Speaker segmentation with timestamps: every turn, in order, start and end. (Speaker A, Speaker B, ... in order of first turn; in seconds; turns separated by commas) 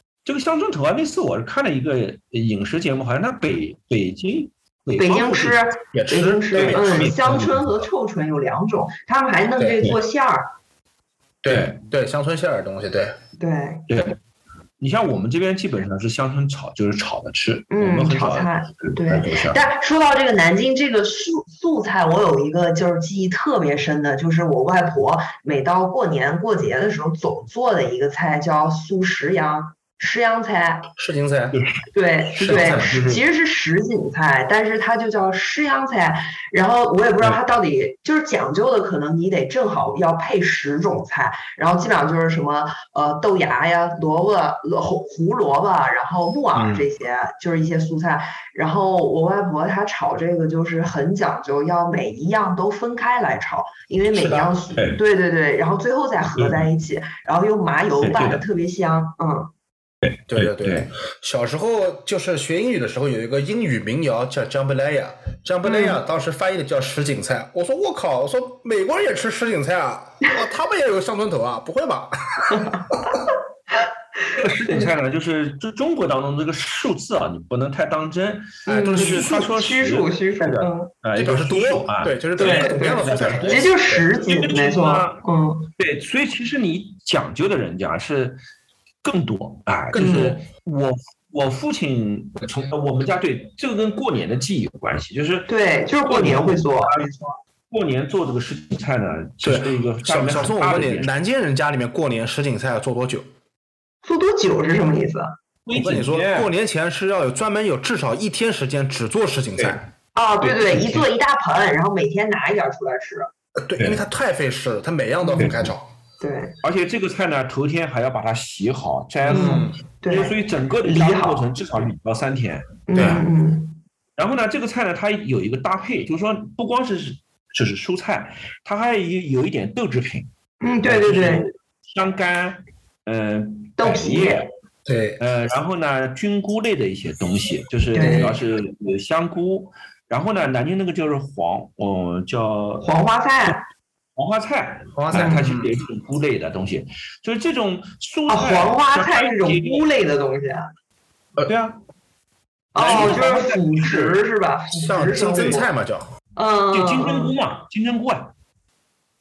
Speaker A: 0.2-5.6, Speaker B: 4.9-10.5, Speaker C: 5.9-7.3, Speaker A: 6.5-7.6, Speaker C: 9.6-9.8, Speaker C: 11.4-13.2, Speaker A: 11.5-11.8, Speaker B: 13.4-13.8, Speaker A: 13.9-14.2, Speaker A: 14.8-19.6, Speaker B: 17.7-30.9, Speaker C: 30.9-31.6, Speaker A: 31.5-31.8, Speaker B: 31.9-59.5, Speaker A: 32.3-33.2, Speaker C: 46.5-46.9, Speaker C: 54.1-54.5, Speaker A: 56.4-56.6, Speaker A: 58.0-58.4, Speaker A: 60.0-60.9, Speaker C: 60.3-72.5, Speaker B: 65.6-66.0, Speaker B: 72.5-73.0, Speaker A: 74.3-85.2, Speaker B: 78.7-80.9, Speaker C: 78.7-79.4, Speaker C: 81.2-84.0, Speaker B: 82.4-85.7, Speaker A: 85.8-88.4, Speaker A: 89.0-95.5, Speaker C: 89.9-90.3, Speaker B: 89.9-90.4, Speaker B: 95.5-97.4, Speaker A: 96.0-97.0, Speaker A: 97.7-101.1, Speaker C: 99.4-103.3, Speaker B: 104.0-105.3, Speaker A: 105.7-106.5, Speaker C: 105.7-109.8, Speaker B: 110.1-113.3, Speaker C: 110.4-110.9, Speaker C: 113.6-115.9, Speaker B: 115.2-115.5, Speaker B: 116.2-116.5, Speaker A: 116.6-123.2, Speaker C: 119.2-119.7, Speaker B: 119.3-121.5, Speaker B: 122.9-123.8, Speaker C: 122.9-123.2, Speaker A: 124.2-130.3, Speaker B: 130.6-131.5, Speaker A: 130.8-134.5, Speaker B: 133.8-134.5, Speaker C: 134.8-135.2, Speaker A: 135.2-142.8, Speaker B: 137.9-138.4, Speaker B: 142.8-143.7, Speaker A: 144.2-149.8, Speaker C: 144.9-145.7, Speaker B: 145.1-145.4, Speaker B: 148.3-150.7, Speaker A: 151.4-151.8, Speaker B: 152.7-155.7, Speaker A: 152.7-154.2, Speaker C: 154.7-156.1, Speaker B: 156.3-157.3, Speaker A: 156.7-158.3